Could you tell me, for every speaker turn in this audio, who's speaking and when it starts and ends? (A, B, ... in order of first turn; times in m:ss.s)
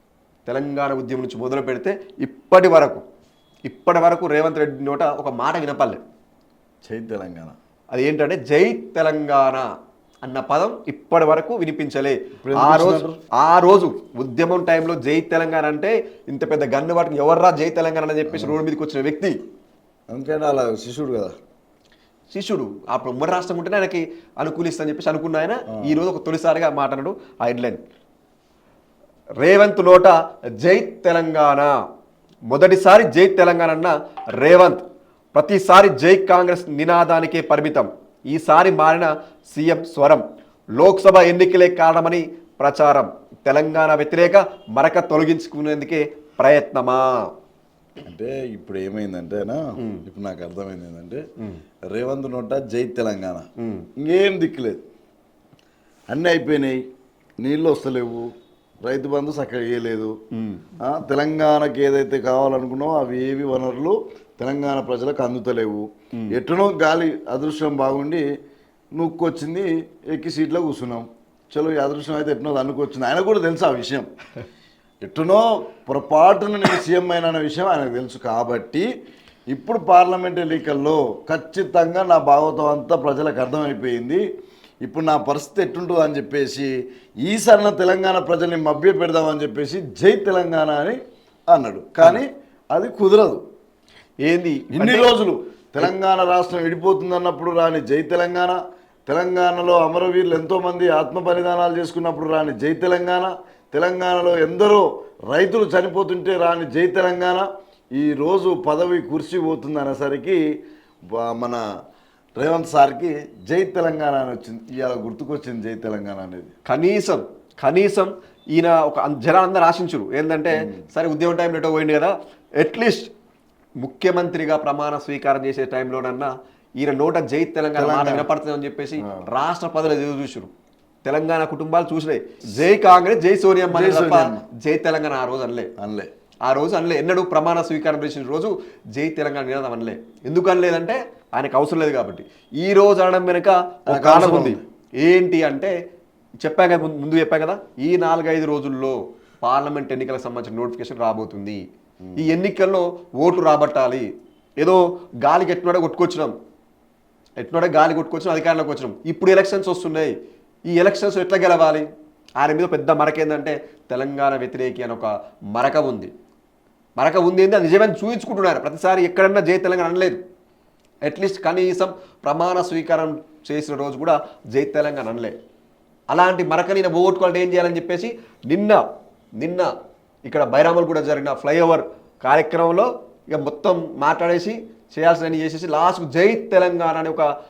0:00.5-0:03.0 A
0:03.7-0:06.0 A
0:06.8-0:07.6 B
0:07.9-0:09.7 A
0:10.2-0:19.4 A
0:12.4-0:13.2 B
0:18.3-0:18.6 B
0:20.1-0:21.4 B
0:22.3-0:27.8 A
0:25.7-0:26.0 B
0:29.4-0:31.8 A
0:32.5-0:47.3 A
0:48.0-0:51.3 B
0:49.8-0:50.0 A
0:51.8-0:54.8 B
0:53.6-0:53.9 A
0:56.1-0:56.8 B
0:57.4-0:58.3 B
0:58.8-1:00.2 B
1:00.3-1:00.7 A
1:00.8-1:08.3 B
1:08.9-1:14.1 B
1:15.0-1:18.9 B
1:19.5-1:24.2 B
1:24.8-1:33.4 B
1:34.2-1:35.1 A
1:34.7-1:50.4 B
1:51.1-1:51.6 B
1:52.4-1:56.5 B
1:56.7-2:03.1 A
2:03.8-2:10.5 A
2:07.8-2:08.3 B
2:09.0-2:09.3 B
2:11.0-2:15.7 A
2:13.7-2:14.4 B
2:15.8-2:16.1 B
2:16.5-2:25.8 A
2:23.9-2:24.6 B
2:26.4-2:31.6 A
2:32.1-2:32.4 B
2:32.2-2:36.4 A
2:37.4-2:40.2 A
2:40.7-2:46.1 A
2:47.0-2:50.2 A
2:51.0-2:55.4 A
2:56.1-2:58.8 A
2:59.4-2:59.7 A
3:00.2-3:07.3 A